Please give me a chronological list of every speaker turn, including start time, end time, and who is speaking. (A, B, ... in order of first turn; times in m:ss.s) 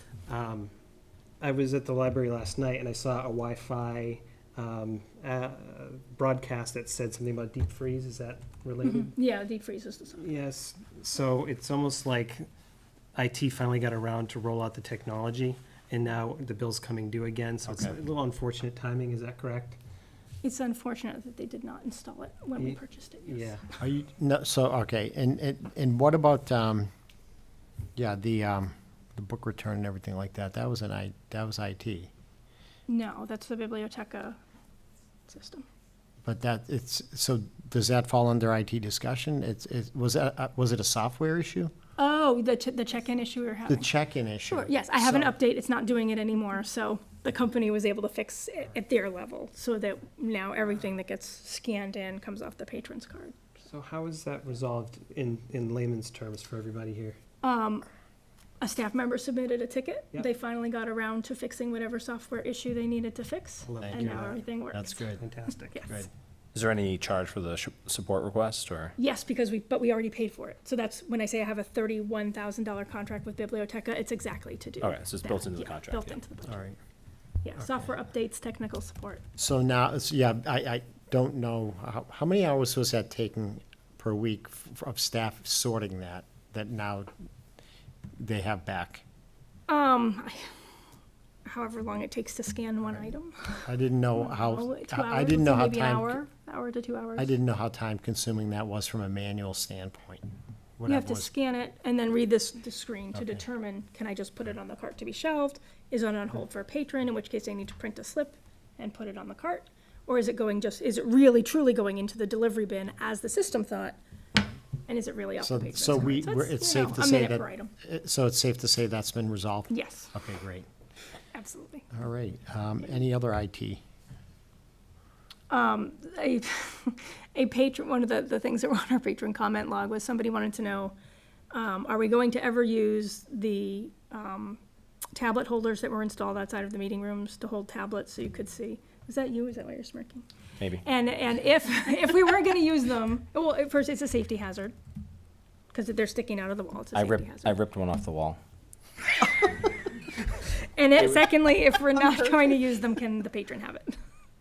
0:00.3-0:00.7 A
0:01.4-0:09.1 A
0:08.8-0:10.3 B
0:10.2-0:12.4 A
0:13.2-0:19.8 A
0:17.7-0:18.0 C
0:20.4-0:23.6 B
0:22.6-0:23.6 A
0:23.8-0:26.9 C
0:28.0-0:32.1 C
0:32.9-0:34.4 B
0:35.3-0:35.6 B
0:36.2-0:41.7 C
0:42.0-0:43.9 B
0:43.7-0:45.4 C
0:44.5-0:53.4 B
0:53.7-0:57.2 A
0:57.4-0:57.9 B
0:58.6-1:05.1 B
1:03.6-1:04.4 A
1:03.8-1:05.2 C
1:05.2-1:05.8 A
1:06.5-1:08.9 D
1:09.0-1:16.6 B
1:14.8-1:16.2 D
1:16.5-1:16.8 C
1:17.4-1:19.2 B
1:17.6-1:17.8 C
1:19.4-1:27.1 C
1:28.2-1:29.0 C
1:29.7-1:30.5 B
1:31.4-1:37.3 B
1:33.6-1:36.2 C
1:37.2-1:40.2 C
1:40.8-1:41.3 C
1:40.9-1:54.0 B
1:54.9-1:57.7 B
1:55.4-2:00.7 C
1:59.7-2:00.1 B
2:01.3-2:01.9 B
2:01.9-2:03.8 C
2:05.5-2:11.0 B
2:11.5-2:14.6 B
2:15.2-2:20.3 B
2:20.8-2:24.7 B
2:25.7-2:27.6 B
2:26.9-2:28.4 D
2:30.3-2:34.0 B